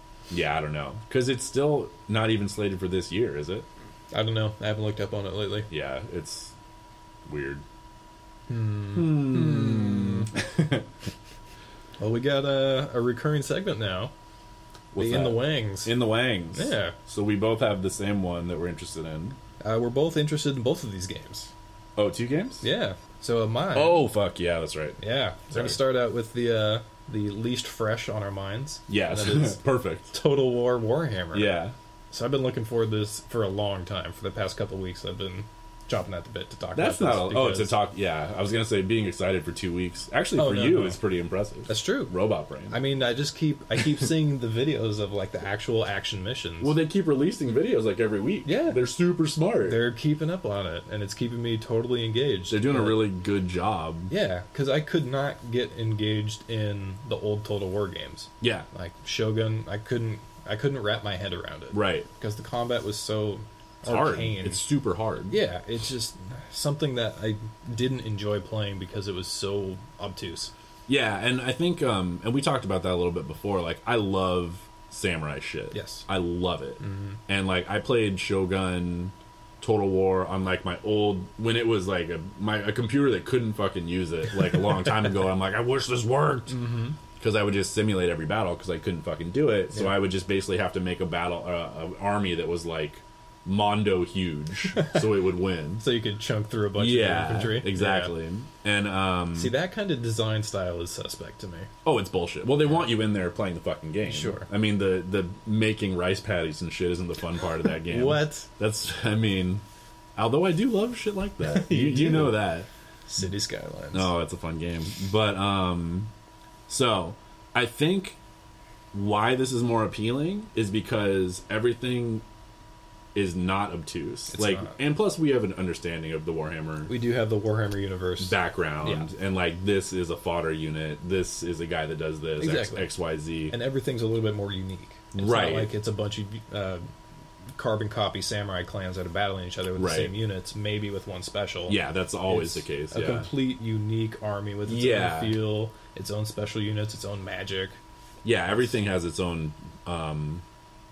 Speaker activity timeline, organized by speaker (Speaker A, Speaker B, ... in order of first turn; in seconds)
Speaker A: 0.3-3.7, 5.7-6.5, 7.2-7.6, 8.9-10.9, 14.9-19.4, 22.0-22.6, 23.7-25.0, 25.5-25.8, 28.9-30.1, 31.3-31.7, 36.7-42.8, 46.6-49.8, 52.5-54.1, 58.4-58.7, 61.7-62.1, 63.9-65.4, 70.9-95.8, 96.8-99.5, 101.8-109.6, 110.2-112.7, 113.9-116.1, 116.7-118.2, 118.9-122.2, 123.1-126.9, 128.2-133.6, 135.1-135.7, 139.8-140.1, 141.7-143.3, 144.7-145.4, 148.2-150.4
Speaker B: 4.1-5.7, 8.5-10.3, 12.0-14.1, 15.0-15.9, 16.5-16.9, 19.6-21.5, 22.6-24.0, 25.0-29.6, 30.1-31.5, 32.1-37.8, 40.4-41.0, 41.7-42.1, 42.7-46.7, 48.4-48.8, 49.6-53.0, 54.1-64.6, 65.3-70.5, 75.7-76.0, 76.8-77.2, 86.5-87.0, 89.7-90.0, 94.8-95.0, 95.8-98.1, 99.3-101.7, 104.1-104.5, 107.8-108.5, 111.4-112.4, 113.1-114.1, 124.3-124.7, 126.9-129.1, 132.4-132.9, 133.5-136.8, 137.5-147.8